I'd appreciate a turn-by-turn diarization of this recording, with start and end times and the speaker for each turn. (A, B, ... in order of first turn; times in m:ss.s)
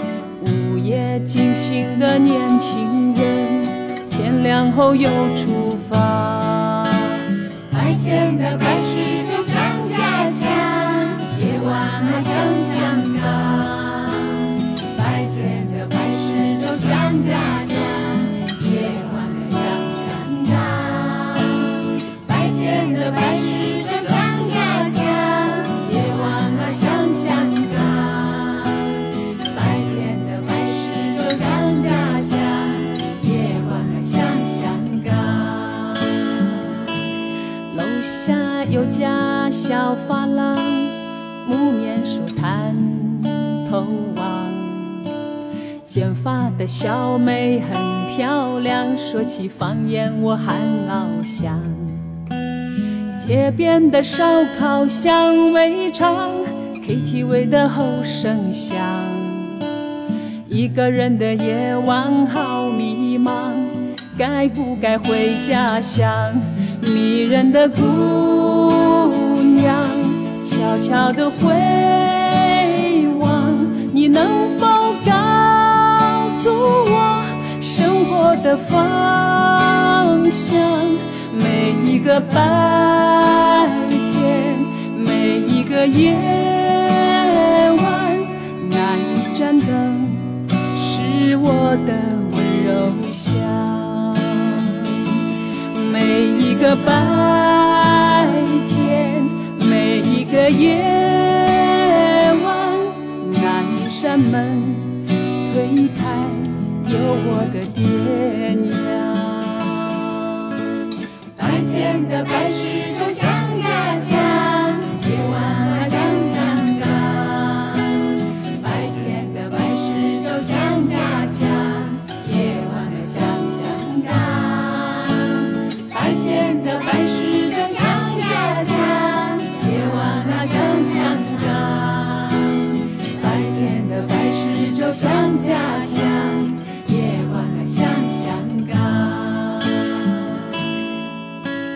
0:00.4-0:36.9 A
0:37.7-0:45.1 A
0:45.9-0:52.2 A
0:53.2-0:59.7 A
1:00.5-1:50.6 A
1:51.4-2:20.7 A